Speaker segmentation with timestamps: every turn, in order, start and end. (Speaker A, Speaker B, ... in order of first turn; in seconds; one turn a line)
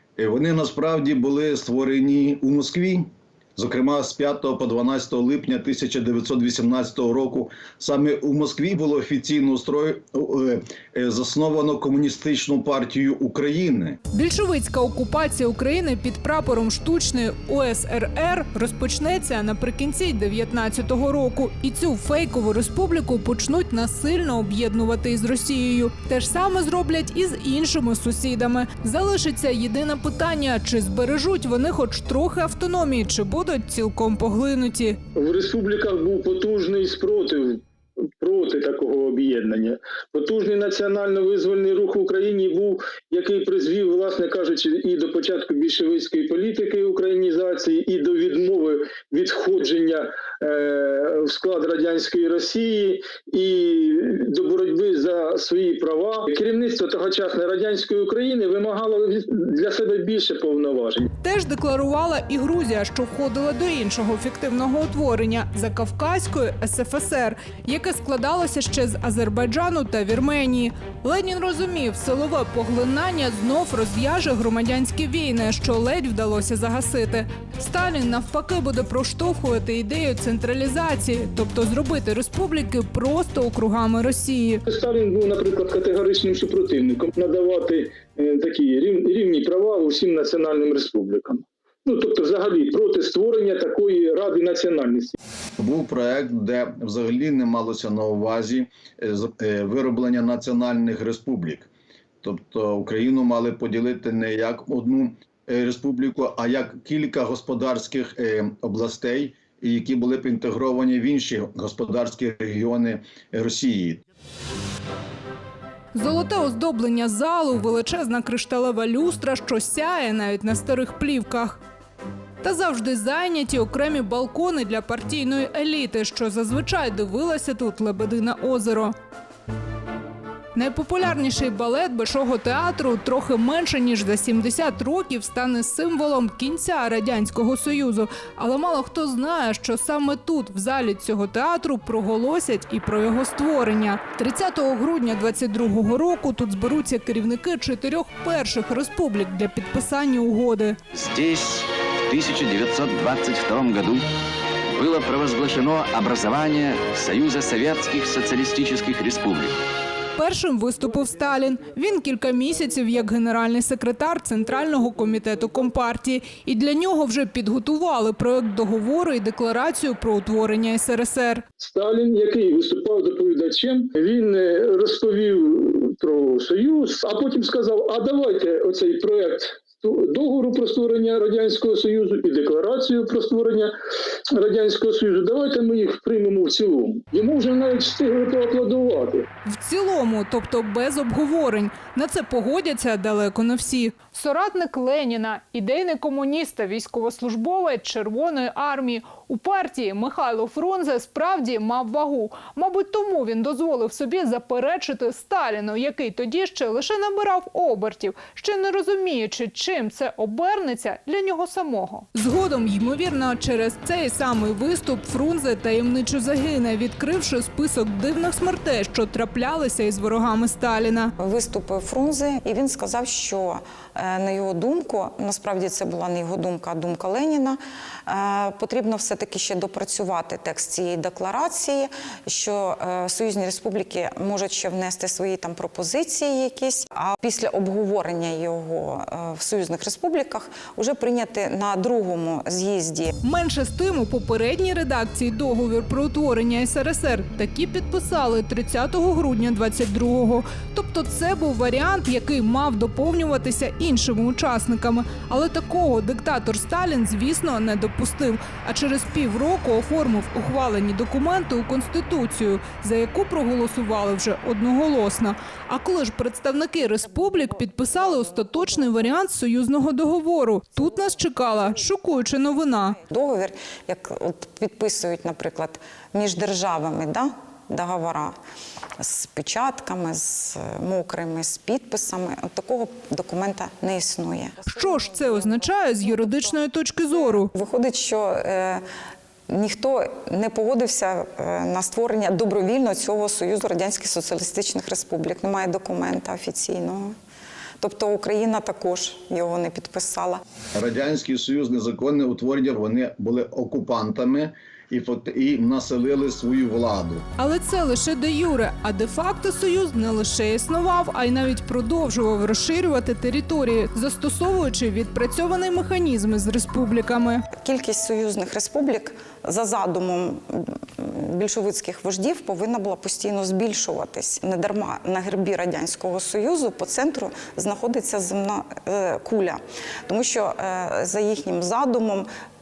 Speaker A: 0.2-14.0
Speaker B: 14.1-35.0
Speaker C: 35.1-37.6
Speaker C: 38.2-61.1
Speaker B: 61.2-84.6
Speaker C: 84.7-95.2
Speaker A: 95.6-101.7
Speaker A: 102.2-114.0
Speaker B: 115.9-121.6
Speaker B: 122.4-128.9
Speaker B: 130.5-150.8
Speaker D: 150.9-154.1
Speaker D: 154.7-159.6
Speaker B: 160.2-171.4
Speaker C: 171.6-183.7
Speaker C: 184.3-189.3
Speaker B: 189.4-221.1
Speaker E: 221.2-243.1
Speaker B: 243.2-273.0
Speaker E: 267.1-269.1
Speaker E: 270.9-278.3
Speaker E: 279.0-288.8
Speaker B: 284.7-287.5
Speaker E: 289.5-297.1
Speaker E: 297.8-300.4
Speaker A: 300.7-307.2
Speaker B: 307.4-317.4
Speaker E: 317.6-332.3